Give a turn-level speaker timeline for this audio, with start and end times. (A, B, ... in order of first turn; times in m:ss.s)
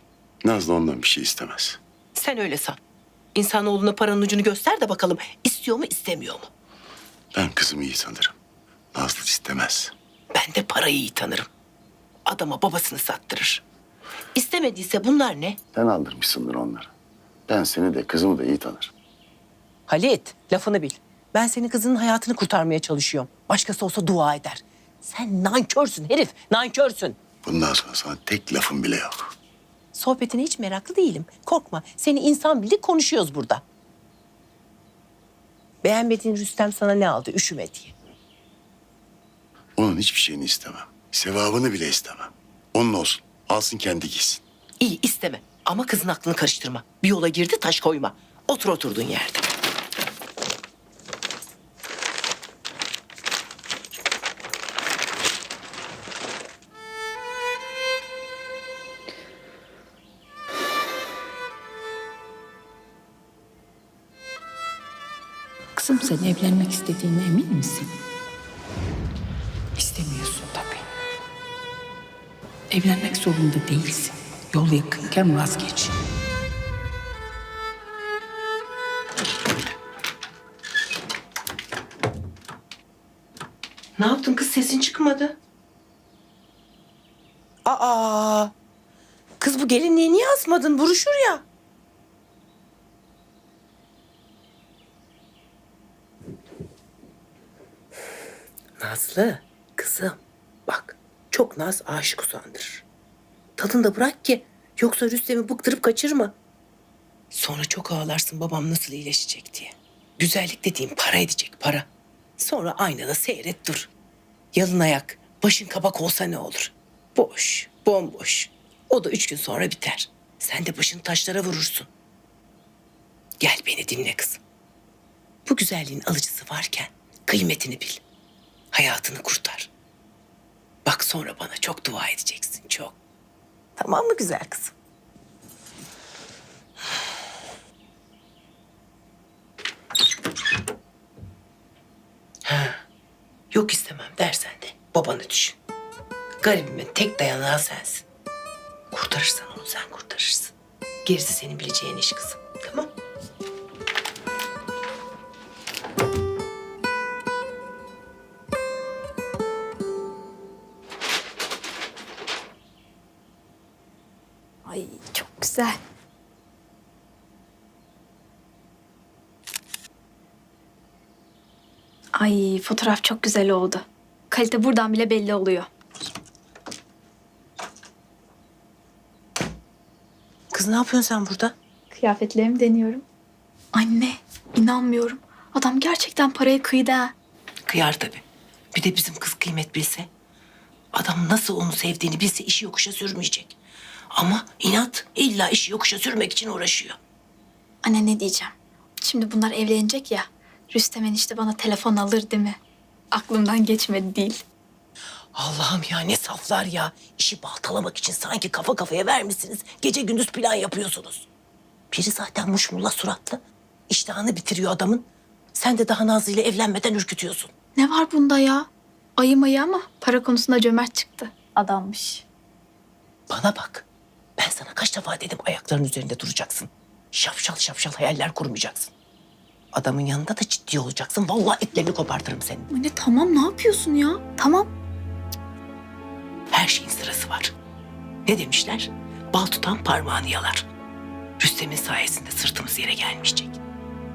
0:00.4-0:01.8 A
0:02.2-0:02.8 B
0:03.4-0:06.5 B
0:07.3-0:08.4 A
0:09.0-0:09.9 A
0:10.3-0:11.5 B
0:12.3-0:13.6 B
0:14.4-0:15.6 B
0:15.7-0:16.9 A
0:17.5-0:18.9 A
0:19.9-0:27.2 B
0:27.4-0:29.4 A
0:29.9-0:33.6 B
0:35.8-0:38.0 B
0:39.8-0:44.4 A
0:44.8-0:49.5 B
1:05.8-1:07.9 C
1:09.8-1:10.8 C
1:12.7-1:15.9 C
1:24.0-1:25.4 B
1:27.6-1:28.5 B
1:29.4-1:31.4 B
1:38.8-1:42.8 B
1:43.6-1:46.4 B
1:47.3-1:53.9 B
1:54.5-2:01.9 B
2:03.4-2:04.4 B
2:05.5-2:08.0 B
2:08.7-2:09.7 B
2:10.8-2:13.0 B
2:13.8-2:14.7 B
2:22.4-2:22.8 B
2:23.5-2:25.6 B
2:26.4-2:28.0 B
2:28.9-2:30.5 B
2:31.0-2:32.9 B
2:44.7-2:45.8 D
2:52.2-2:55.7 D
3:00.5-3:01.6 B
3:01.9-3:03.0 D
3:03.7-3:07.1 D
3:07.7-3:10.1 B
3:10.9-3:13.6 B
3:14.1-3:17.0 B
3:17.8-3:22.6 D
3:23.1-3:24.4 D
3:25.4-3:31.3 B
3:31.9-3:37.5 B
3:37.8-3:38.7 D
3:39.2-3:42.2 D
3:43.3-3:43.9 B
3:44.4-3:48.9 B
3:49.7-3:52.7 B
3:52.7-3:54.7 D
3:56.5-3:57.5 B
3:58.3-4:00.7 B
4:01.4-4:03.6 B